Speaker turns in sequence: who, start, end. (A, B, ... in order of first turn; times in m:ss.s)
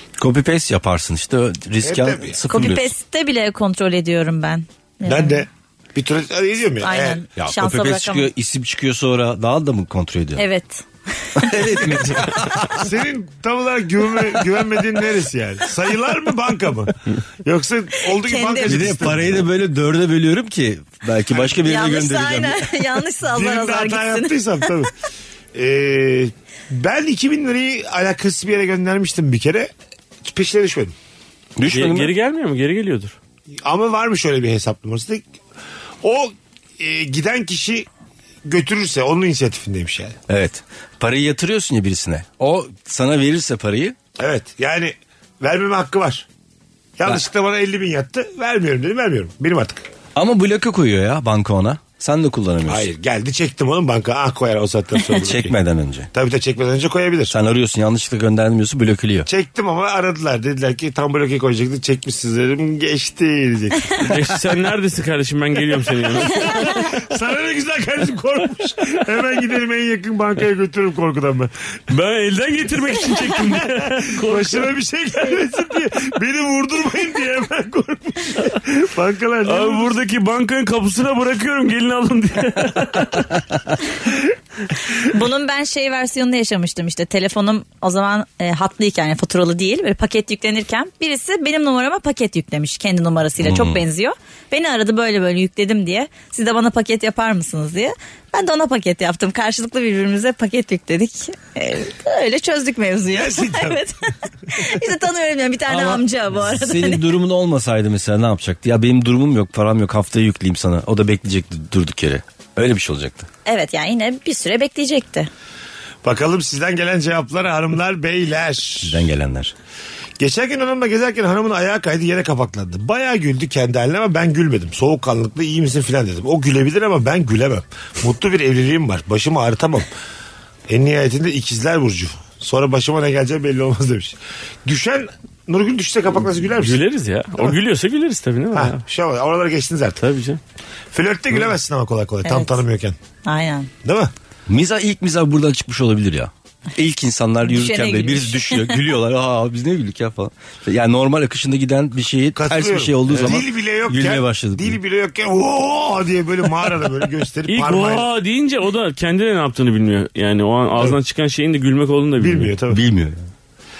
0:00.2-0:02.9 A
0:01.8-0:02.4 B
0:02.5-0:05.4 C
0:05.0-0:07.2 B
0:06.8-0:08.3 C
0:07.4-0:10.4 A
0:10.4-0:11.6 C
0:11.4-0:12.9 A
0:11.9-0:19.4 B
0:18.1-0:18.8 C
0:18.6-0:22.7 A
0:21.3-0:21.6 B
0:21.5-0:24.7 C
0:23.3-0:24.9 B
0:25.5-0:29.7 B
0:30.2-0:30.9 B
0:31.6-0:32.1 A
0:31.7-0:33.1 D
0:33.6-0:35.2 B
0:36.0-0:37.9 B
0:38.4-0:40.2 B
0:40.3-0:44.0 A
0:44.2-0:46.2 B
0:47.0-0:49.8 B
0:50.2-0:52.9 A
0:52.7-0:55.5 B
0:55.1-0:56.1 A
0:56.1-0:57.3 B
0:57.3-0:59.3 A
0:59.3-1:04.2 B
1:04.0-1:06.8 D
1:06.2-1:11.5 B
1:11.9-1:14.7 D
1:14.1-1:20.0 B
1:19.4-1:23.4 D
1:25.0-1:47.0 C
1:33.4-1:33.8 A
1:43.1-1:43.8 B
1:45.7-1:53.3 A
1:53.4-1:55.3 C
1:56.0-1:59.0 B
1:58.8-1:59.5 A
2:00.2-2:09.9 B
2:10.7-2:16.8 B
2:16.6-2:18.8 D
2:18.5-2:20.0 B
2:20.0-2:20.4 D
2:20.9-2:23.0 B
2:22.2-2:22.6 C
2:23.2-2:23.7 C
2:23.8-2:24.1 B
2:24.5-2:34.8 A
2:27.4-2:28.8 C
2:32.4-2:38.0 B
2:33.1-2:33.4 D
2:37.5-2:42.5 D
2:42.2-2:42.8 B
2:42.7-2:43.2 A